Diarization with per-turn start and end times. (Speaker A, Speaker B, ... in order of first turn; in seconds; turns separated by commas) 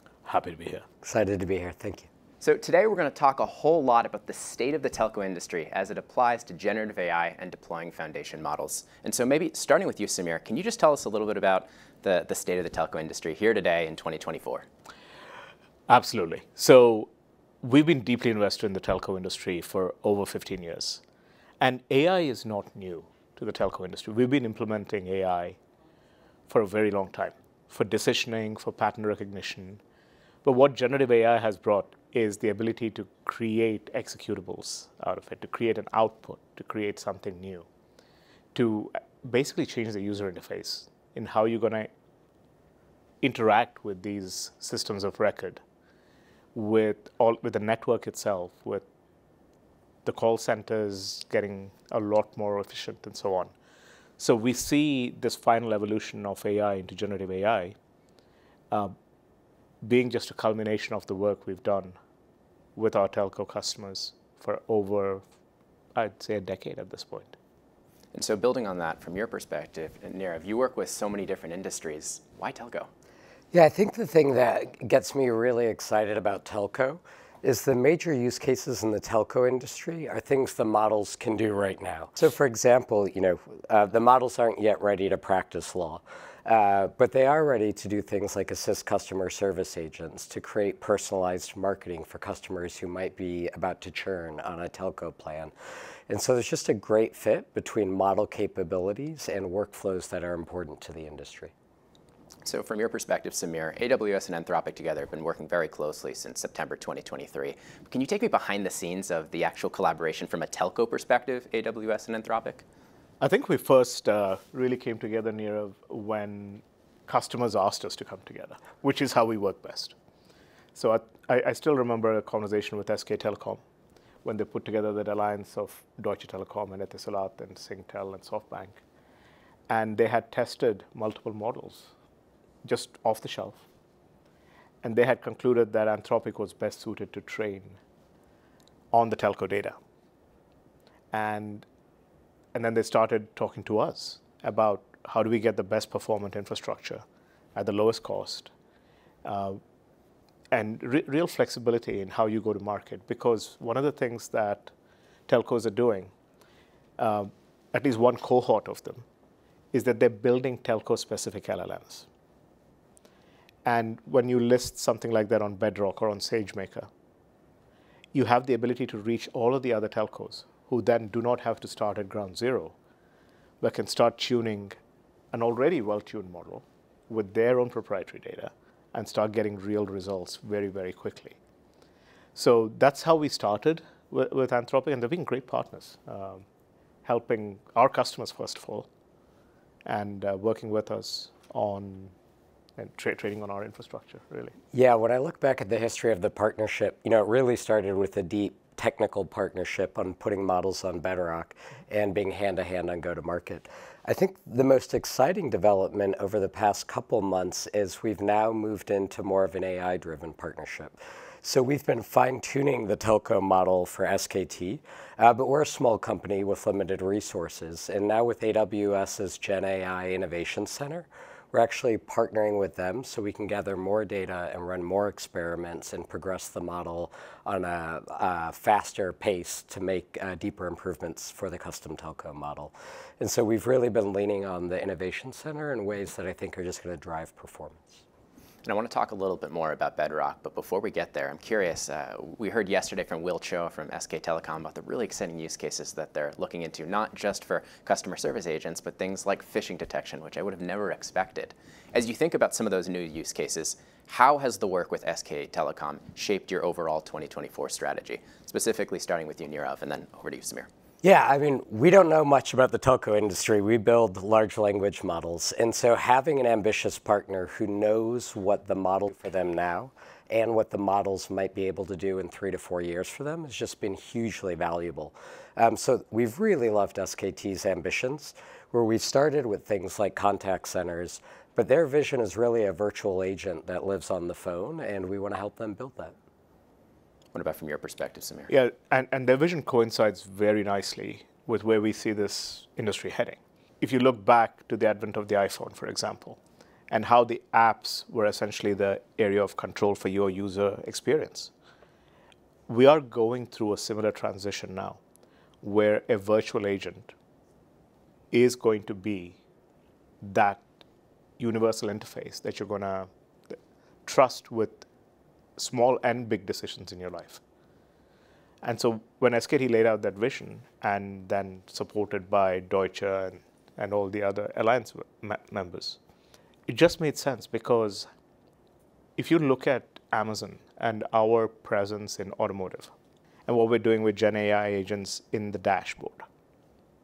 Speaker A: 0.3-0.8, Speaker B: 1.0-2.1, Speaker C: 2.4-14.7, Speaker A: 15.9-17.1, Speaker A: 17.6-21.0, Speaker A: 21.6-25.6, Speaker A: 26.5-29.8, Speaker A: 30.4-37.7, Speaker A: 38.5-41.9, Speaker A: 43.2-45.6, Speaker A: 46.5-48.9, Speaker A: 50.0-53.5, Speaker A: 54.2-57.8, Speaker A: 59.8-62.0, Speaker A: 62.8-65.2, Speaker A: 66.0-67.3, Speaker C: 68.1-72.9, Speaker B: 73.5-95.5, Speaker B: 96.1-101.5, Speaker C: 102.5-112.6, Speaker A: 113.2-120.0, Speaker A: 120.8-123.6, Speaker A: 124.2-128.8, Speaker A: 129.7-131.9, Speaker A: 132.6-133.6, Speaker A: 134.8-137.8, Speaker A: 138.9-139.8, Speaker A: 141.1-141.7, Speaker A: 142.5-147.0, Speaker A: 147.6-148.5, Speaker A: 149.2-149.6, Speaker A: 150.5-154.7, Speaker A: 155.3-156.1, Speaker A: 157.0-159.1, Speaker A: 159.7-162.1, Speaker A: 163.7-166.9, Speaker A: 168.1-172.8, Speaker A: 173.6-174.8, Speaker A: 175.3-181.4, Speaker A: 182.3-186.4, Speaker A: 187.1-188.9, Speaker A: 189.8-192.1, Speaker A: 192.8-194.5, Speaker B: 194.7-238.0, Speaker C: 238.6-260.7, Speaker B: 261.0-286.1, Speaker C: 287.3-288.5, Speaker A: 288.5-296.4, Speaker A: 296.9-301.5, Speaker A: 302.7-305.0, Speaker A: 305.6-307.1, Speaker A: 308.3-309.4, Speaker A: 310.2-310.7, Speaker A: 311.4-313.1, Speaker A: 314.1-314.9, Speaker A: 315.6-317.4, Speaker A: 318.6-326.0, Speaker A: 326.7-328.1, Speaker A: 329.2-332.9, Speaker A: 333.5-336.2